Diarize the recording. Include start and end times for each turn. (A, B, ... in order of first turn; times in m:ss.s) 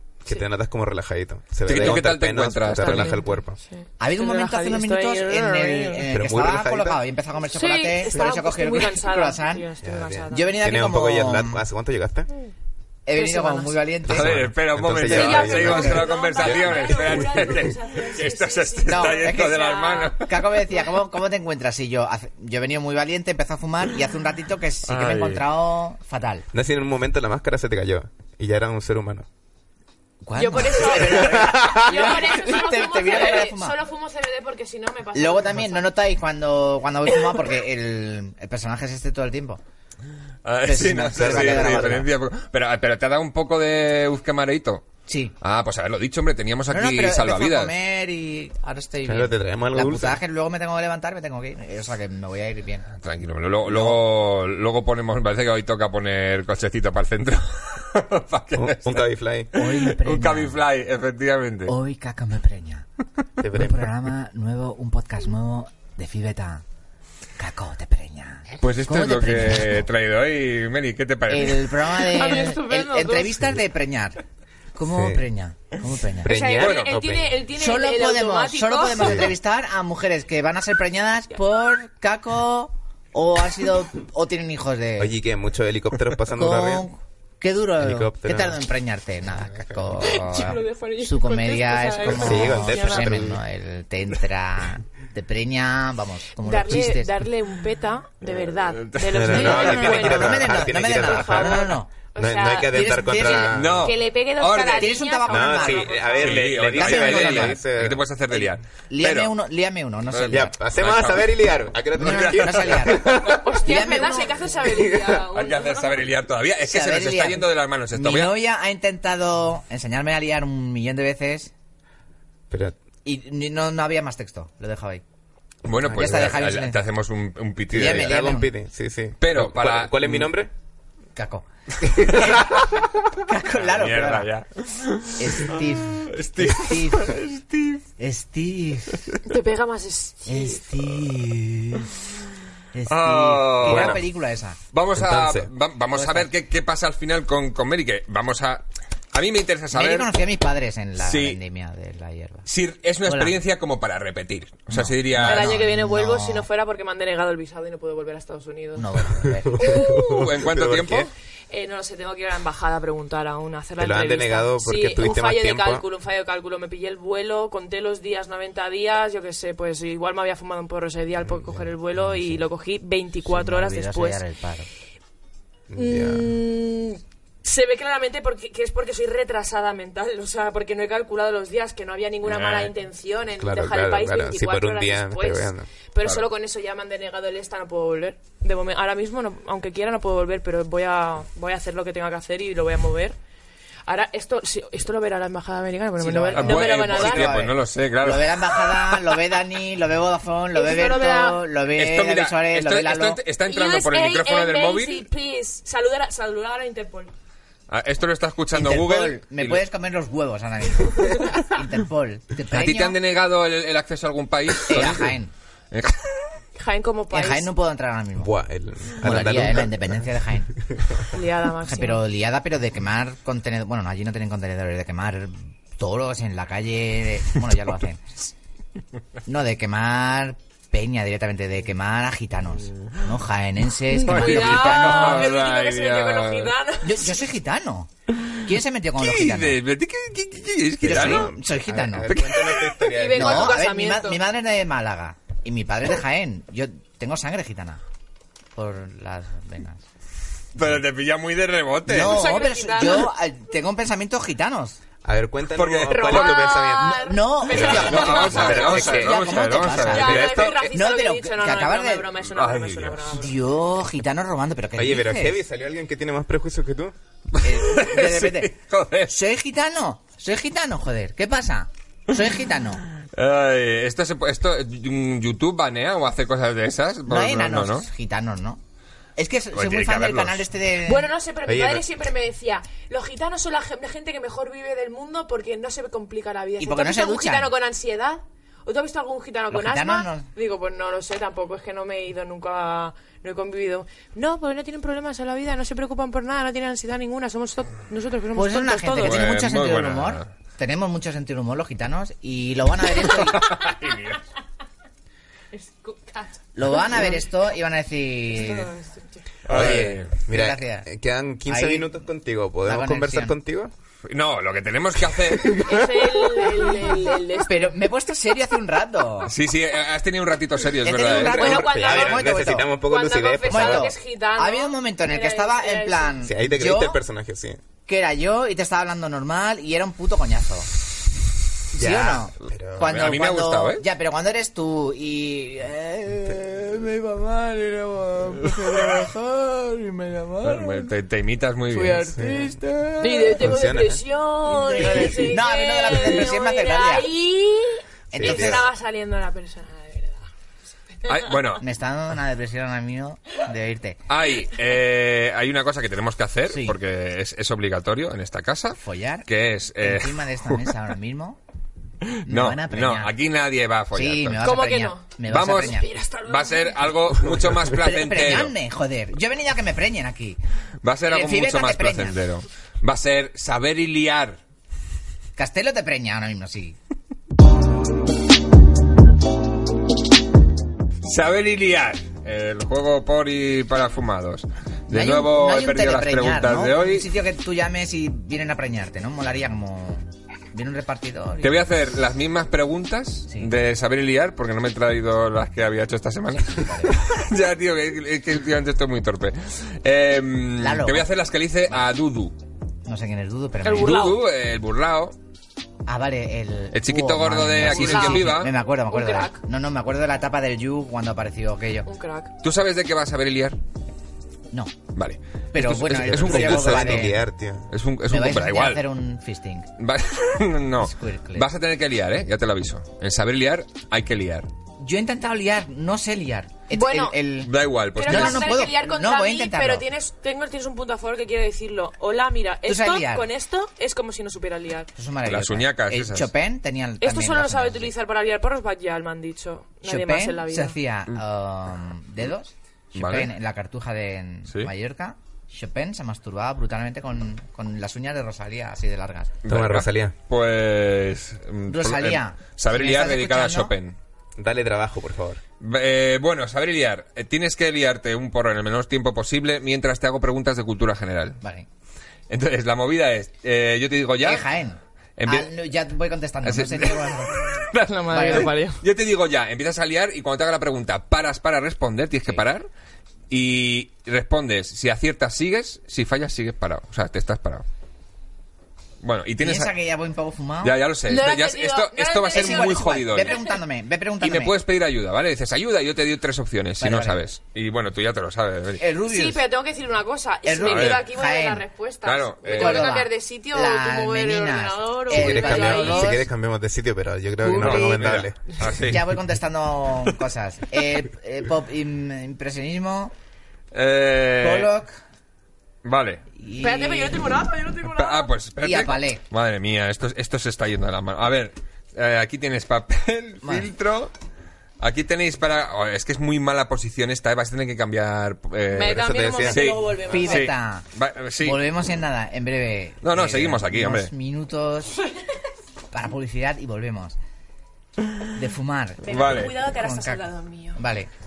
0:00.2-0:03.6 A
0:01.6-0:03.2 B
0:02.8-0:06.1 C
0:04.0-0:09.6 D
0:06.1-0:07.0 A
0:07.5-0:10.6 C
0:09.8-0:12.3 A
0:10.3-0:11.6 D
0:13.0-0:14.4 D
0:13.2-0:13.8 C
0:14.1-0:20.3 B
0:14.1-0:17.3 A
0:15.0-0:20.9 C
0:15.1-0:16.1 D
0:18.9-0:26.4 D
0:24.9-0:25.4 B
0:26.5-0:29.3 A
0:30.2-0:33.8 D
0:30.3-0:35.9 C
0:30.8-0:32.2 A
0:35.1-0:39.6 D
0:40.4-0:44.8 B
0:40.6-0:42.1 D
0:41.1-0:42.0 A
0:45.1-0:45.3 D
0:45.4-0:47.7 B
0:46.7-0:52.9 D
0:49.0-0:50.2 A
0:52.9-1:01.7 B
0:58.6-0:59.5 A
0:59.5-1:00.6 D
1:01.7-1:02.8 D
1:03.4-1:03.9 A
1:03.5-1:06.6 D
1:07.4-1:09.8 D
1:08.6-1:11.7 B
1:11.3-1:14.2 D
1:11.9-1:13.4 C
1:14.7-1:16.4 D
1:14.9-1:15.2 A
1:16.2-1:17.4 A
1:16.2-1:19.3 C
1:16.5-1:16.9 B
1:17.6-1:25.2 D
1:19.0-1:19.3 A
1:25.0-1:26.9 A
1:26.3-1:37.2 D
1:27.8-1:28.6 A
1:30.0-1:33.3 C
1:32.0-1:33.4 A
1:36.4-1:46.4 C
1:38.2-1:40.1 B
1:39.1-1:43.9 A
1:39.3-1:41.9 D
1:42.6-1:43.6 D
1:43.5-1:45.0 B
1:44.8-1:46.2 D
1:45.3-1:48.5 A
1:46.1-1:49.3 B
1:46.7-1:47.6 D
1:48.9-1:50.5 D
1:50.1-1:53.0 B
1:50.3-1:53.6 A
1:52.0-1:54.4 D
1:53.3-1:56.0 C
1:54.6-1:55.2 A
1:55.3-1:58.3 B
1:56.6-2:01.5 D
2:02.5-2:02.8 A
2:03.0-2:05.0 D
2:05.6-2:08.2 B
2:05.8-2:06.4 A
2:05.9-2:06.8 D
2:07.7-2:10.5 A
2:07.7-2:08.5 D
2:09.2-2:10.3 B
2:11.2-2:12.6 D
2:13.2-2:14.3 D
2:13.5-2:17.8 B
2:15.2-2:17.2 D
2:18.0-2:19.1 D
2:19.2-2:20.6 C
2:20.2-2:21.9 D
2:22.7-2:24.6 D
2:22.9-2:24.0 B
2:23.6-2:24.0 A
2:24.7-2:30.1 B
2:24.9-2:25.5 A
2:25.9-2:26.3 D
2:29.7-2:32.5 D
2:31.0-2:31.4 B
2:32.5-2:35.6 B
2:33.0-2:33.3 D
2:34.7-2:36.4 D
2:35.2-2:38.9 C
2:38.7-2:39.7 D
2:39.2-2:41.1 A
2:39.6-2:40.3 C
2:39.8-2:41.1 B
2:41.5-2:54.2 C
2:43.8-2:45.8 A
2:51.9-2:52.4 D
2:53.2-2:54.7 D
2:55.7-2:56.3 A
2:55.7-3:13.2 C
3:02.2-3:02.7 B
3:03.4-3:05.7 A
3:13.8-3:17.4 C
3:16.0-3:23.2 D
3:16.3-3:18.6 B
3:20.5-3:21.4 C
3:21.7-3:25.1 B
3:23.4-3:27.1 C
3:27.7-3:29.6 B
3:28.5-3:33.0 D
3:32.5-3:35.1 B
3:34.6-3:35.3 D
3:35.7-3:36.2 B
3:36.5-3:37.5 C
3:37.1-3:38.3 D
3:38.2-3:40.1 A
3:39.0-3:40.5 D
3:40.7-3:41.0 A
3:41.1-3:42.0 C
3:41.6-3:48.3 D
3:49.2-3:55.3 D
3:53.9-3:57.2 C
3:54.0-3:56.5 B
3:56.8-3:59.6 D
3:59.0-4:01.3 B
4:00.8-4:03.6 A
4:00.8-4:02.1 D
4:02.1-4:02.7 B
4:02.7-4:04.2 C
4:03.1-4:07.8 D
4:08.5-4:09.8 D
4:10.5-4:12.4 B
4:11.8-4:14.8 D
4:11.9-4:13.1 C
4:15.0-4:20.6 A
4:15.5-4:16.5 B
4:15.9-4:18.9 C
4:16.6-4:22.1 D
4:17.5-4:20.6 B
4:19.8-4:23.3 C
4:22.3-4:23.1 B
4:23.1-4:25.4 D
4:24.8-4:26.9 A
4:27.3-4:29.1 B
4:27.4-4:28.5 D
4:29.1-4:32.8 D
4:33.0-4:37.9 B
4:37.1-4:38.6 D
4:39.2-4:41.1 D
4:39.5-4:40.4 B
4:40.8-4:59.2 C
4:41.4-4:41.8 A
4:46.6-4:47.5 D
4:49.5-4:50.3 D
4:58.3-5:03.5 D
4:59.0-5:00.3 B
5:03.0-5:04.2 B
5:03.4-5:03.9 C
5:05.5-5:07.2 C
5:06.5-5:08.7 D
5:08.3-5:09.2 C
5:09.5-5:10.1 B
5:09.5-5:10.9 D
5:09.5-5:13.7 A
5:11.4-5:12.0 D
5:12.6-5:13.3 D
5:14.1-5:16.0 B
5:15.5-5:17.8 C
5:17.4-5:19.3 D
5:19.2-5:21.6 B
5:20.8-5:22.7 D
5:21.1-5:26.2 C
5:21.2-5:23.9 A
5:23.5-5:27.0 D
5:26.2-5:27.6 A
5:27.8-5:30.7 D
5:31.7-5:40.9 D
5:31.7-5:32.9 A
5:32.8-5:33.8 B
5:40.4-5:42.1 B
5:41.7-5:42.2 C
5:41.7-5:43.5 D
5:42.1-5:42.5 A
5:43.0-5:50.3 C
5:43.3-5:44.0 A
5:44.5-5:47.1 D
5:48.1-5:48.6 D
5:48.1-5:48.7 A
5:51.0-5:51.6 B
5:51.6-5:54.0 D
5:54.1-6:00.7 B
5:56.5-5:56.8 D
5:58.8-5:59.3 D
5:59.8-6:01.4 D
6:02.1-6:04.5 B
6:02.2-6:03.1 D
6:03.9-6:05.9 D
6:04.4-6:07.0 C
6:05.3-6:08.5 B
6:07.6-6:10.4 D
6:10.8-6:14.4 B
6:11.1-6:12.2 D
6:15.4-6:16.8 D
6:21.0-6:27.0 B
6:24.9-6:31.7 D
6:31.4-6:42.3 B
6:36.4-6:37.0 D
6:40.6-6:41.1 D
6:42.8-6:44.0 D
6:43.6-6:44.2 C
6:43.7-6:45.1 B
6:45.8-6:51.9 D
6:46.7-6:48.5 B
6:47.6-6:49.4 C
6:51.8-6:52.3 C
6:52.4-6:53.6 B
6:54.9-6:57.2 B
6:55.5-6:57.2 D
6:56.0-6:57.7 A
6:57.7-6:58.8 B
6:58.1-6:59.7 D
6:59.8-7:04.5 B
7:00.8-7:01.5 D
7:04.8-7:07.5 D
7:06.7-7:07.2 C
7:07.4-7:08.7 B
7:08.0-7:14.9 C
7:08.0-7:09.8 D
7:12.6-7:13.3 D
7:14.9-7:17.9 D
7:15.2-7:16.3 B
7:17.0-7:20.8 C
7:19.8-7:29.3 D
7:22.9-7:23.3 B
7:29.4-7:34.0 B
7:29.5-7:30.1 A
7:31.7-7:33.7 D
7:34.4-7:35.4 A
7:35.6-7:41.4 B
7:41.4-7:41.7 D
7:42.3-7:44.4 B
7:44.2-7:47.4 D
7:45.2-7:45.5 B
7:46.4-7:52.7 B
7:47.8-7:48.8 C
7:48.1-7:48.5 D
7:53.3-7:57.6 B
7:59.0-7:59.7 B
7:59.4-8:00.8 D
8:00.6-8:03.4 B
8:01.0-8:03.6 C
8:02.3-8:04.5 D
8:04.2-8:08.8 B
8:06.8-8:07.2 D
8:08.8-8:09.4 D
8:09.1-8:16.2 C
8:10.4-8:11.6 D
8:10.7-8:11.0 B
8:12.0-8:12.9 B
8:12.5-8:16.2 D
8:15.1-8:18.4 A
8:17.4-8:23.1 D
8:17.5-8:19.1 B
8:23.7-8:24.7 B
8:24.4-8:25.0 D
8:25.8-8:26.2 B
8:26.4-8:27.2 D
8:26.6-8:28.3 C
8:27.8-8:34.1 B
8:28.6-8:29.2 D
8:33.4-8:33.7 D
8:34.8-8:41.6 B
8:38.7-8:40.5 C
8:38.8-8:39.7 A
8:40.1-8:40.8 D
8:41.4-8:45.0 D
8:43.0-8:44.1 B
8:45.9-8:47.2 D
8:48.3-8:51.1 D
8:49.0-8:50.8 C
8:49.1-8:49.5 B